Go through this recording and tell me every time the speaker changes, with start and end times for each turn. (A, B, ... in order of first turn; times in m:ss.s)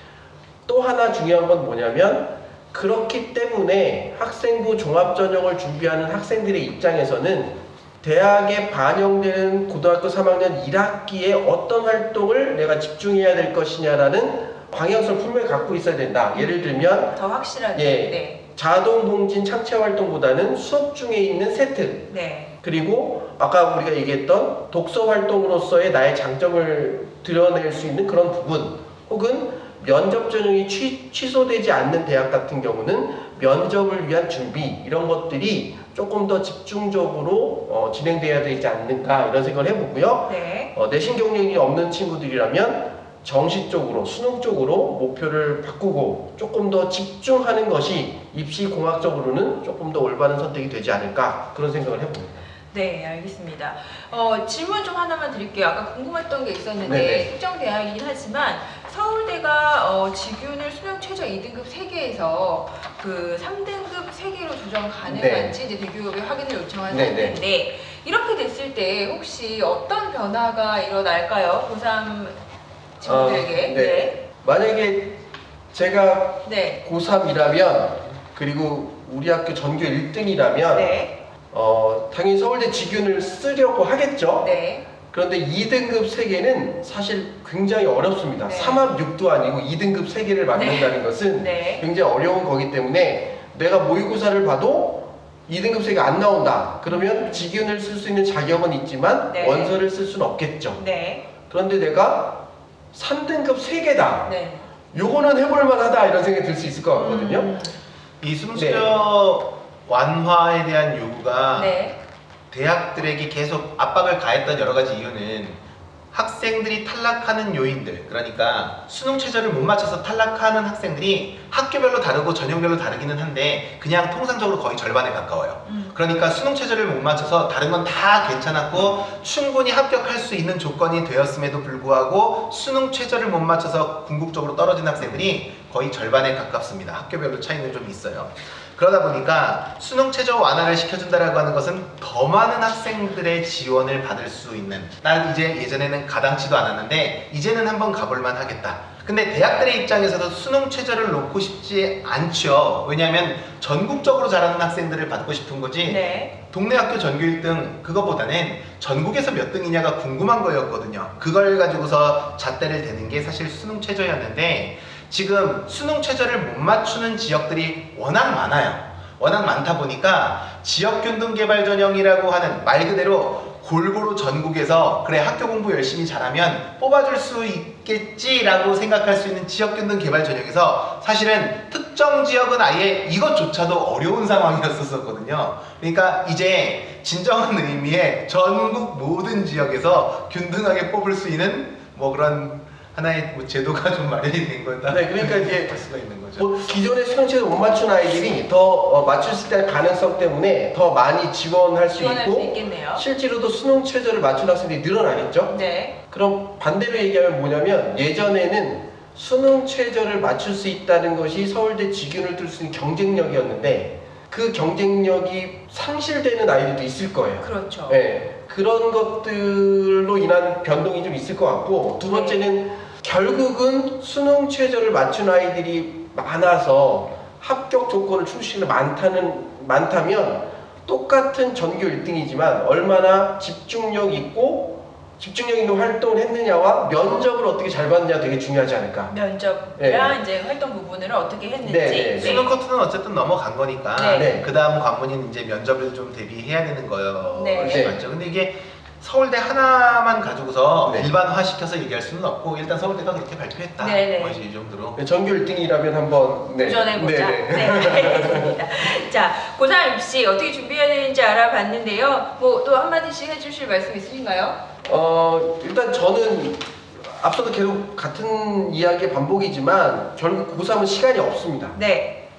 0:00.7-0:17.2 A
0:16.4-0:18.4 B
0:17.7-0:52.4 A
0:22.1-0:22.5 B
0:40.3-0:40.7 B
0:52.7-1:12.4 B
0:56.8-0:57.3 A
1:05.0-1:05.6 A
1:06.9-1:07.4 A
1:13.0-1:14.2 B
1:13.0-1:15.2 A
1:15.7-1:21.0 A
1:16.4-1:16.8 B
1:20.7-1:21.2 B
1:21.5-1:24.5 A
1:24.4-1:24.9 B
1:25.1-1:40.8 A
1:28.5-1:28.9 B
1:30.5-1:31.8 B
1:36.9-1:37.6 B
1:39.3-1:39.7 B
1:40.8-1:41.3 B
1:41.5-1:44.3 A
1:44.3-1:44.7 B
1:44.9-1:47.5 A
1:47.0-1:47.8 B
1:48.2-1:51.8 C
1:48.5-1:48.9 A
1:51.5-1:52.0 B
1:52.5-1:55.6 C
1:56.1-3:16.5 C
2:05.7-2:06.0 B
2:35.8-2:36.3 B
3:14.9-3:25.6 A
3:21.9-3:23.0 B
3:25.5-3:26.0 B
3:26.1-3:59.1 A
3:37.4-3:38.0 B
3:42.0-3:42.5 B
3:59.1-4:02.6 B
3:59.8-4:00.2 A
4:01.6-4:02.4 A
4:02.2-4:15.0 C
4:03.9-4:04.4 B
4:04.1-4:04.5 A
4:07.3-4:08.0 B
4:07.6-4:08.0 A
4:10.8-4:11.1 A
4:13.8-4:14.4 B
4:15.0-4:18.6 A
4:16.5-4:24.6 B
4:24.8-4:31.8 A
4:31.8-4:32.2 B